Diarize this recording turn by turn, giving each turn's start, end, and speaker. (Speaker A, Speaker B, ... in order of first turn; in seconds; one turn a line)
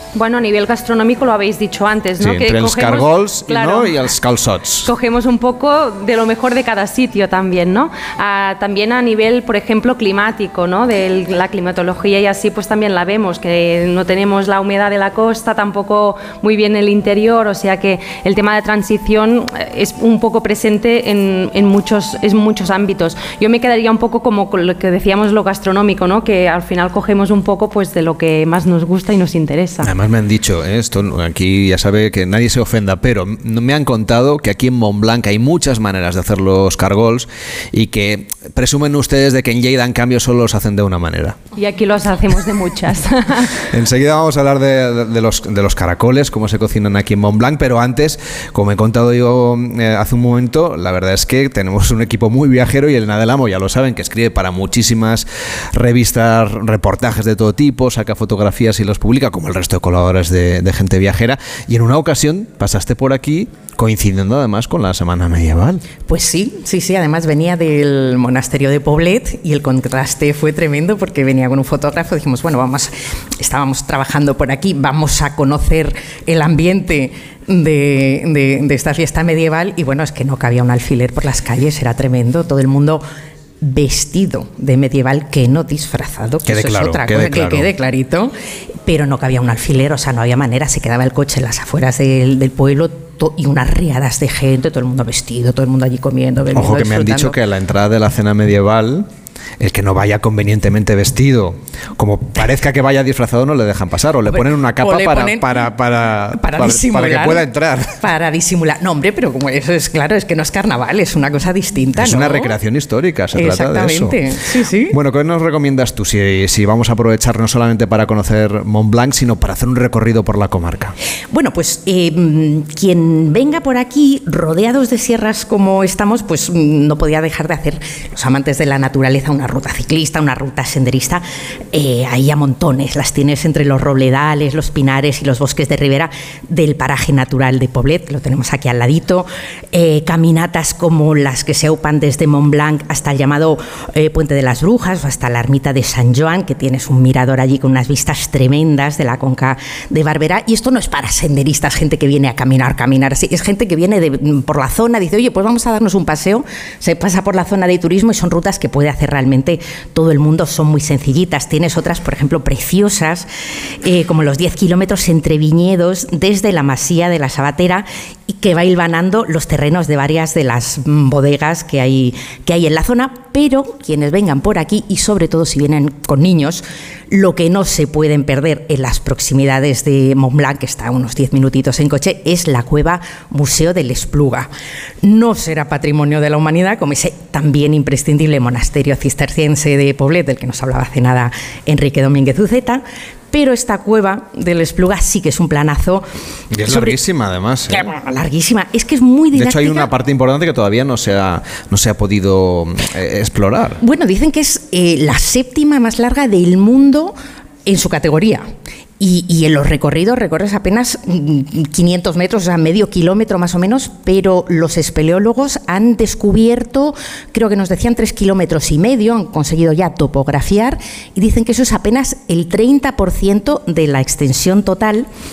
Speaker A: 0.1-4.0
Speaker B: 2.2-4.9
Speaker A: 4.8-29.9
Speaker B: 29.8-41.4
Speaker A: 41.5-43.5
Speaker B: 43.7-65.8
Speaker C: 66.0-83.0
Speaker C: 83.6-88.3
Speaker B: 86.5-87.7
Speaker C: 88.8-97.3
Speaker B: 96.5-99.1
Speaker B: 99.6-108.0
Speaker C: 104.3-105.6
Speaker C: 106.3-107.5
Speaker C: 108.0-112.5
Speaker B: 112.0-114.2
Speaker C: 113.3-114.9
Speaker B: 114.9-120.9
Speaker C: 121.3-163.3
Speaker C: 163.8-184.5
Speaker C: 185.0-196.1
Speaker B: 196.5-197.9
Speaker C: 196.6-197.0
Speaker C: 197.7-199.9
Speaker B: 199.3-203.8
Speaker C: 203.8-208.5
Speaker C: 209.0-225.1